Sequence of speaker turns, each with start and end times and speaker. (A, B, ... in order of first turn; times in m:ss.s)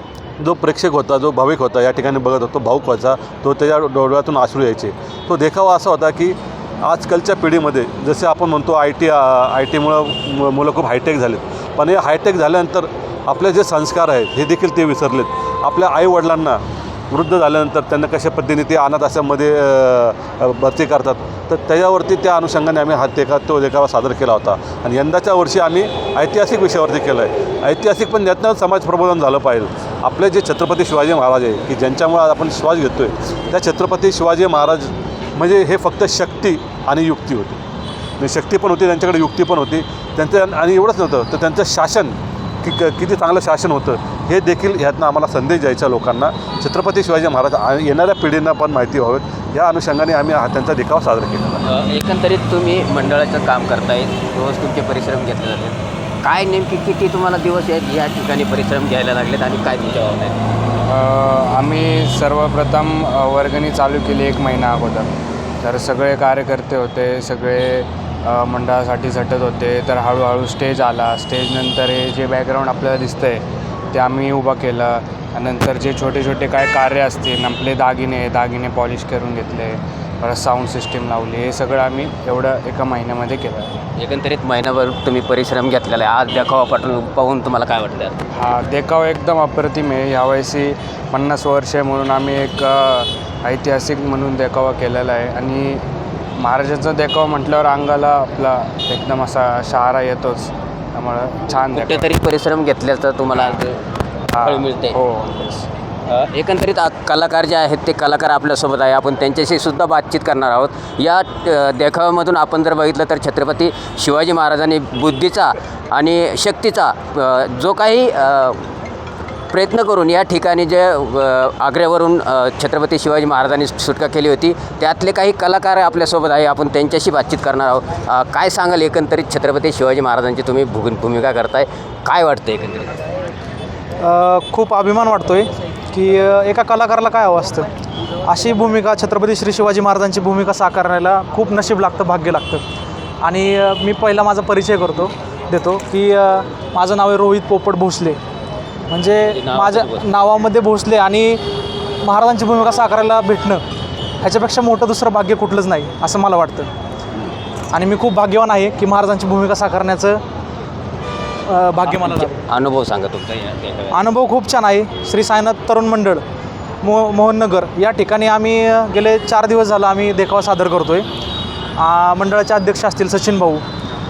0:00.4-0:37.6 A
0:38.2-0:51.6 A
0:51.6-1:00.4 B
1:01.1-1:05.1 C
1:05.6-1:13.4 C
1:13.9-1:23.8 C
1:24.0-1:28.2 B
1:28.4-1:35.8 C
1:36.4-1:42.0 C
1:41.7-1:43.8 B
1:44.3-1:45.0 B
1:44.3-1:45.6 C
1:46.1-1:58.7 B
1:59.5-2:13.0 B
2:14.0-2:17.7 D
2:18.2-2:22.6 D
2:23.2-2:28.2 D
2:28.9-2:31.4 D
2:29.2-2:30.1 B
2:32.0-2:33.6 D
2:34.2-2:36.7 D
2:37.7-2:40.2 D
2:41.5-2:42.4 D
2:41.8-2:44.1 B
2:43.9-2:46.2 D
2:46.8-2:51.1 D
2:51.8-2:53.6 D